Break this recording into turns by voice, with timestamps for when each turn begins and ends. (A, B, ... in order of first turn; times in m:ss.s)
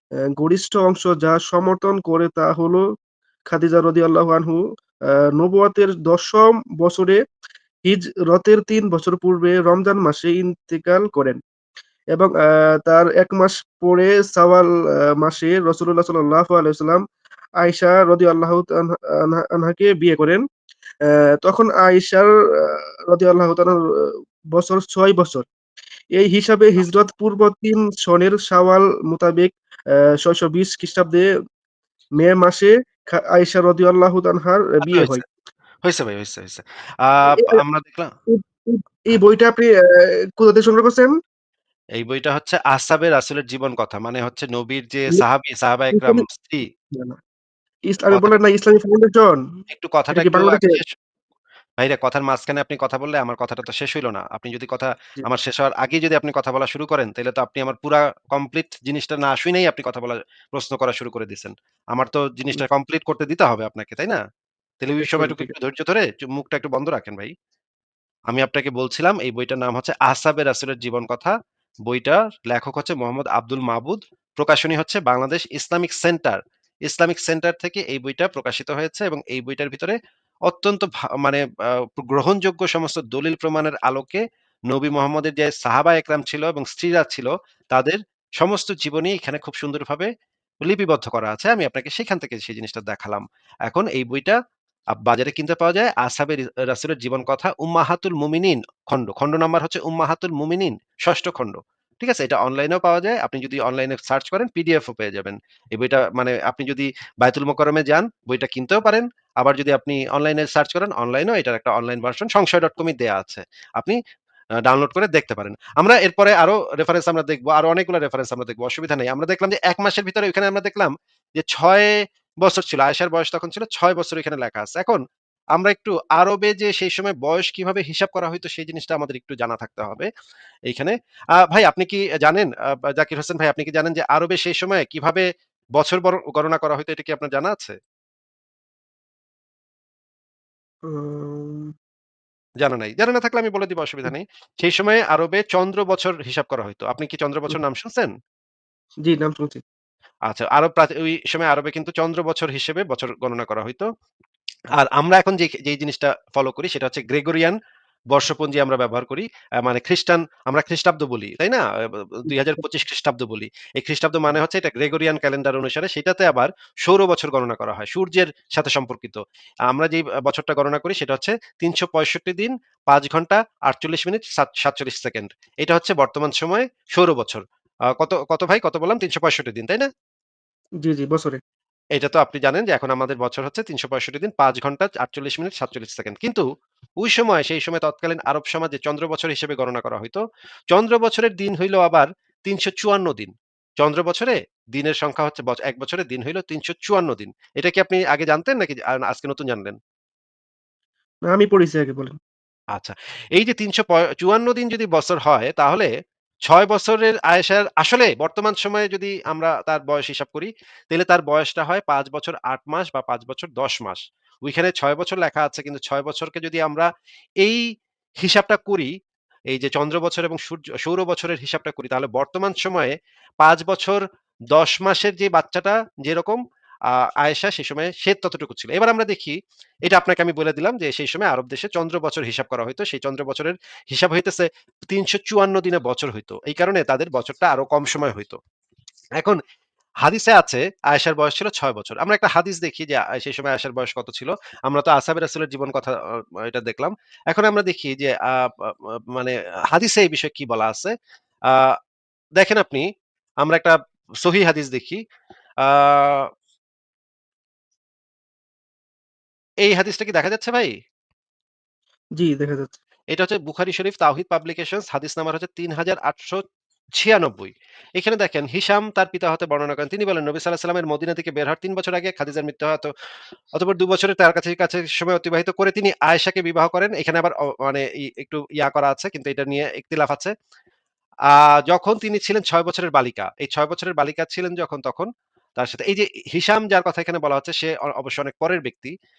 0:00.3-0:02.8 A
0:03.4-0:07.2 A
0:07.8-0:11.4 A
0:12.1-0:14.7 A
0:15.2-0:17.0 A
0:17.6-0:20.4 A
0:21.0-0:23.8 A
0:24.5-0:25.4 A
0:26.1-0:31.3 A
0:32.2-0:35.2 A
0:34.8-0:35.2 B
0:35.8-0:38.1 B
0:37.3-0:37.6 A
0:38.3-0:41.1 A
0:42.0-0:46.7 B
0:45.9-0:46.2 A
0:47.9-0:49.4 A
0:49.7-0:50.9 B
0:50.1-0:50.8 A
0:51.8-1:04.2 B
1:04.8-1:07.3 B
1:05.0-1:05.5 A
1:08.3-1:11.3 B
1:11.8-1:20.0 B
1:20.5-1:30.1 B
1:30.6-1:34.4 B
1:34.9-1:54.0 B
1:54.6-2:05.0 B
2:05.5-2:10.1 B
2:10.7-2:17.8 B
2:20.8-2:21.7 A
2:22.6-2:28.1 B
2:29.0-2:29.6 A
2:30.3-2:33.9 B
2:34.8-2:37.6 B
2:38.1-2:57.4 B
2:57.9-2:59.9 B
3:00.8-3:01.4 A
3:01.9-3:06.4 B
3:07.0-3:19.8 B
3:21.3-3:22.2 A
3:22.7-3:25.9 B
3:26.4-3:36.9 B
3:38.2-3:38.9 B
3:39.5-3:58.4 B
4:00.0-4:10.9 B
4:12.4-4:12.8 B
4:13.4-4:15.0 B
4:15.6-4:16.2 B
4:19.6-4:20.7 B
4:22.2-4:22.8 A
4:23.1-4:26.4 B
4:27.0-4:32.9 B
4:33.5-4:40.3 B
4:41.3-4:48.9 B